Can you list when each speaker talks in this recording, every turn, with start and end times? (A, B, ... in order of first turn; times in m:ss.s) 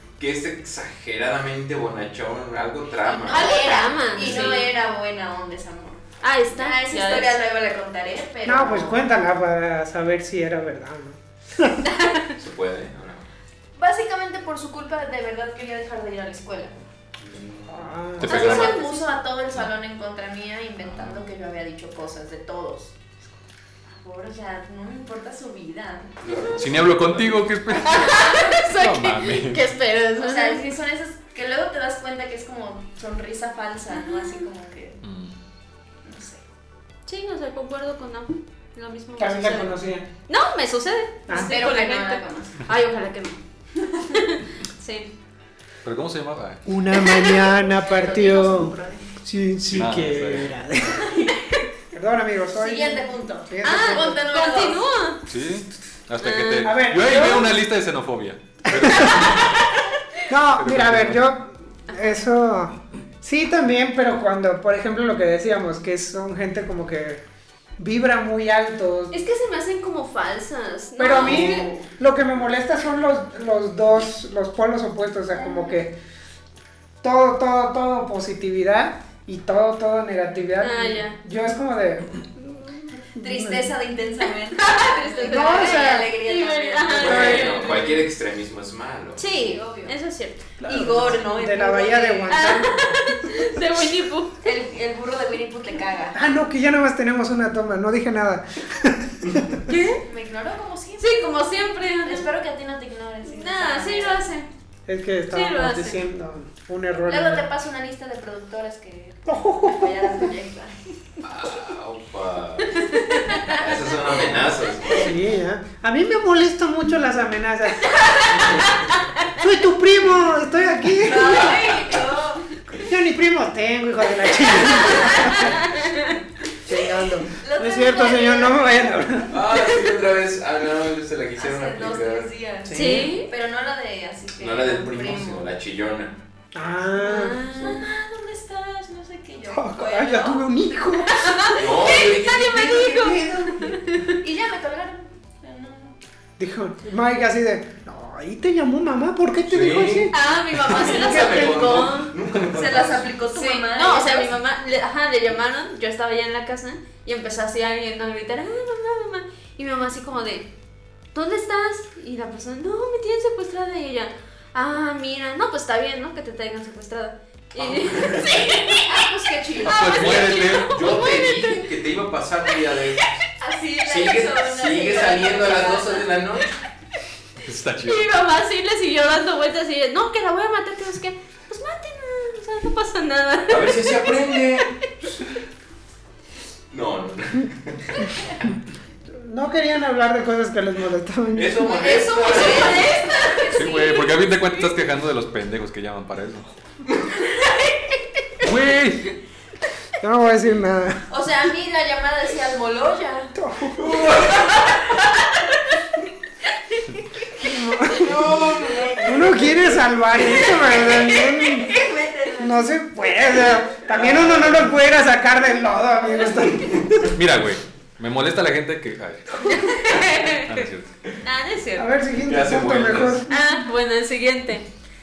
0:00.2-0:04.4 A
0:03.0-0:09.0 B
0:03.3-0:04.7 C
0:06.2-0:07.4 C
0:08.4-0:11.8 D
0:11.9-0:12.3 C
0:12.4-0:13.2 A
0:13.8-0:16.8 B
0:17.2-0:18.6 A
0:17.7-0:18.4 D
0:18.2-0:18.8 E
0:18.2-0:19.1 C
0:18.2-0:22.9 B
0:20.8-0:21.2 A
0:23.9-0:26.5 B
0:26.2-0:27.5 A
0:26.3-0:26.6 C
0:26.6-0:29.6 E
0:27.8-0:30.6 C
0:28.0-0:28.4 B
0:30.2-0:35.0 B
0:34.0-0:34.4 C
0:35.0-0:35.3 E
0:36.0-0:36.4 B
0:37.1-0:39.8 C
0:39.2-0:40.1 D
0:40.3-0:43.4 C
0:41.3-0:42.6 B
0:43.8-0:44.2 B
0:44.1-0:45.1 C
0:45.8-0:46.6 E
0:46.6-0:51.1 D
0:47.0-0:47.5 C
0:47.8-0:49.1 B
0:49.7-0:50.5 E
0:51.0-0:51.3 B
0:51.9-0:54.2 D
0:52.5-0:54.8 B
0:53.6-0:55.2 C
0:55.3-0:59.6 E
0:56.2-0:57.5 C
0:56.6-0:57.5 D
0:58.7-0:59.3 D
0:59.0-0:59.8 C
1:00.3-1:07.2 D
1:00.6-1:01.2 E
1:07.8-1:09.2 D
1:09.1-1:11.7 C
1:11.0-1:16.0 D
1:11.1-1:11.8 B
1:17.0-1:23.7 D
1:20.6-1:21.2 C
1:22.9-1:27.9 B
1:24.5-1:28.0 C
1:25.3-1:26.1 D
1:27.0-1:29.2 A
1:27.0-1:27.7 D
1:29.2-1:30.4 C
1:29.2-1:30.0 B
1:30.6-1:33.2 D
1:30.6-1:32.4 B
1:32.3-1:34.5 C
1:34.4-1:36.2 B
1:36.1-1:39.8 D
1:39.7-1:40.0 C
1:40.0-1:41.5 B
1:41.0-1:42.3 C
1:42.0-1:44.2 B
1:43.3-1:44.5 C
1:44.9-1:47.5 D
1:45.3-1:46.0 C
1:47.1-1:50.8 B
1:49.2-1:50.3 D
1:51.2-1:55.3 A
1:52.8-1:55.0 B
1:53.0-1:53.5 C
1:55.0-1:58.0 D
1:57.9-1:58.9 C
1:59.4-2:01.6 D
2:01.0-2:02.5 B
2:01.2-2:01.8 A
2:02.8-2:05.6 D
2:04.9-2:05.9 C
2:04.9-2:05.3 B
2:06.6-2:09.4 D
2:07.3-2:08.9 B
2:09.3-2:12.3 A
2:11.4-2:15.5 B
2:12.6-2:13.1 D
2:12.7-2:13.3 C
2:14.4-2:16.1 A
2:16.5-2:17.4 D
2:17.0-2:17.8 C
2:17.2-2:20.5 B
2:19.5-2:21.2 D
2:21.2-2:24.0 C
2:21.2-2:22.0 B
2:21.5-2:23.1 A
2:22.7-2:23.8 D
2:24.2-2:25.9 B
2:26.4-2:30.1 D
2:29.5-2:33.1 A
2:30.1-2:32.1 C
2:30.8-2:31.7 D
2:32.5-2:34.4 B
2:33.3-2:40.4 C
2:41.1-2:49.1 C
2:47.6-2:48.5 A
2:48.6-2:50.3 B
2:49.6-2:50.8 E
2:49.6-2:51.7 C
2:50.6-2:53.0 A
2:52.5-2:53.2 C
2:53.4-2:56.2 B
2:53.8-2:56.5 A
2:57.4-2:58.0 E
2:57.8-3:04.9 C
3:03.5-3:05.2 A
3:06.7-3:08.5 A
3:09.2-3:11.6 D
3:11.4-3:13.0 A
3:11.6-3:14.1 B
3:11.8-3:14.0 C
3:13.5-3:16.5 E
3:18.4-3:19.1 E
3:20.0-3:21.0 D
3:21.1-3:23.4 B
3:23.4-3:24.1 D
3:23.8-3:24.4 A
3:27.4-3:28.4 D
3:28.0-3:29.6 A
3:28.4-3:29.0 B
3:29.0-3:31.7 D
3:30.2-3:33.1 B
3:32.4-3:37.1 D
3:33.9-3:34.6 A
3:37.1-3:39.6 E
3:39.4-3:40.7 C
3:40.1-3:40.9 E
3:41.2-3:41.9 C
3:41.8-3:43.4 D
3:42.2-3:43.2 A
3:43.3-3:44.6 C